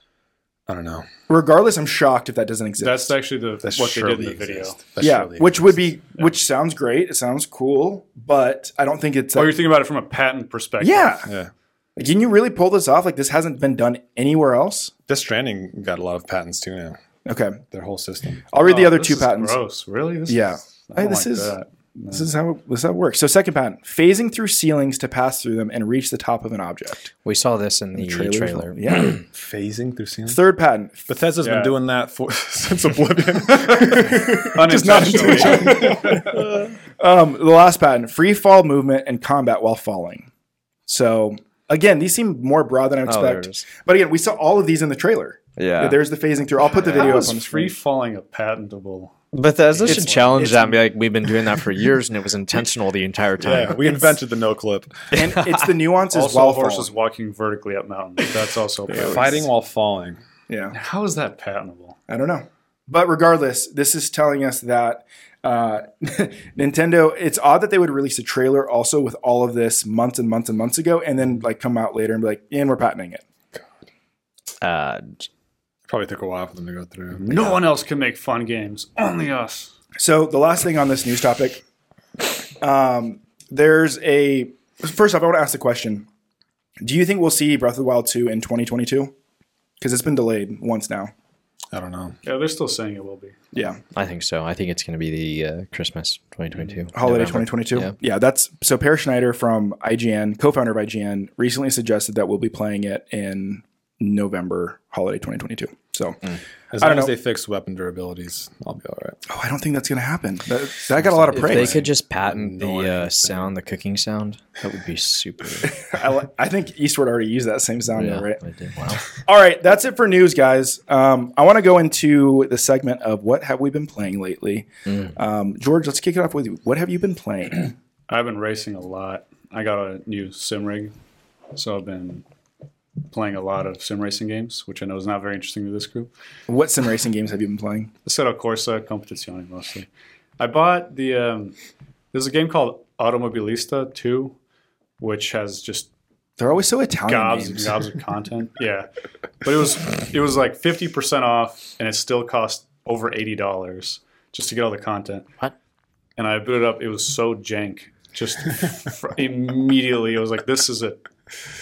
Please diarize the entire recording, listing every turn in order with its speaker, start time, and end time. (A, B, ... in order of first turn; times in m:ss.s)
0:00.7-0:01.1 A
0:01.3-0:03.1 B
0:02.8-0:04.8 C
0:03.6-0:05.8 A
0:05.0-0:09.5 B
0:09.3-0:11.2 C
0:10.8-0:11.3 B
0:11.2-0:11.5 A
0:12.0-0:14.9 B
0:15.1-0:17.0 A
0:17.2-0:17.6 B
0:17.7-0:18.5 A
0:18.5-0:19.6 B
0:18.6-0:22.3 C
0:20.3-0:21.5 B
0:22.1-0:27.1 B
0:27.2-0:29.2 D
0:27.9-0:29.2 B
0:29.3-0:30.4 A
0:30.2-0:31.0 B
0:31.1-0:36.4 A
0:31.4-0:31.7 C
0:34.5-0:36.3 C
0:34.6-0:36.5 B
0:37.0-0:40.3 B
0:40.9-0:47.7 B
0:43.0-0:43.6 D
0:45.6-0:46.0 D
0:46.7-0:49.1 C
0:49.3-0:54.1 D
0:49.7-0:50.4 C
0:49.8-0:50.8 B
0:53.4-0:55.0 A
0:55.1-0:56.9 B
0:56.1-0:59.5 C
0:58.9-1:00.2 A
1:00.5-1:00.8 B
1:00.7-1:02.0 C
1:02.1-1:13.2 B
1:14.6-1:15.3 D
1:15.9-1:17.5 A
1:17.1-1:19.7 C
1:17.3-1:17.6 D
1:20.0-1:21.6 B
1:22.6-1:26.0 B
1:26.8-1:29.1 B
1:29.8-1:31.1 B
1:31.7-1:32.2 A
1:32.2-1:33.4 C
1:33.5-1:33.8 B
1:33.9-1:37.9 D
1:36.9-1:46.2 B
1:46.7-1:49.2 A
1:46.8-1:47.1 B
1:49.3-1:51.8 B
1:51.0-1:53.5 A
1:51.3-1:55.8 D
1:55.6-1:58.4 B
1:57.9-1:59.0 D
1:59.1-2:07.7 B
2:04.9-2:05.1 D
2:08.1-2:10.9 C
2:11.5-2:12.2 C
2:13.1-2:16.1 C
2:16.5-2:17.9 B
2:18.0-2:19.9 C
2:20.4-2:21.5 C
2:22.1-2:24.4 C
2:25.0-2:25.9 C
2:26.4-2:27.8 B
2:27.1-2:28.9 C
2:29.4-2:35.3 C
2:36.2-2:41.0 C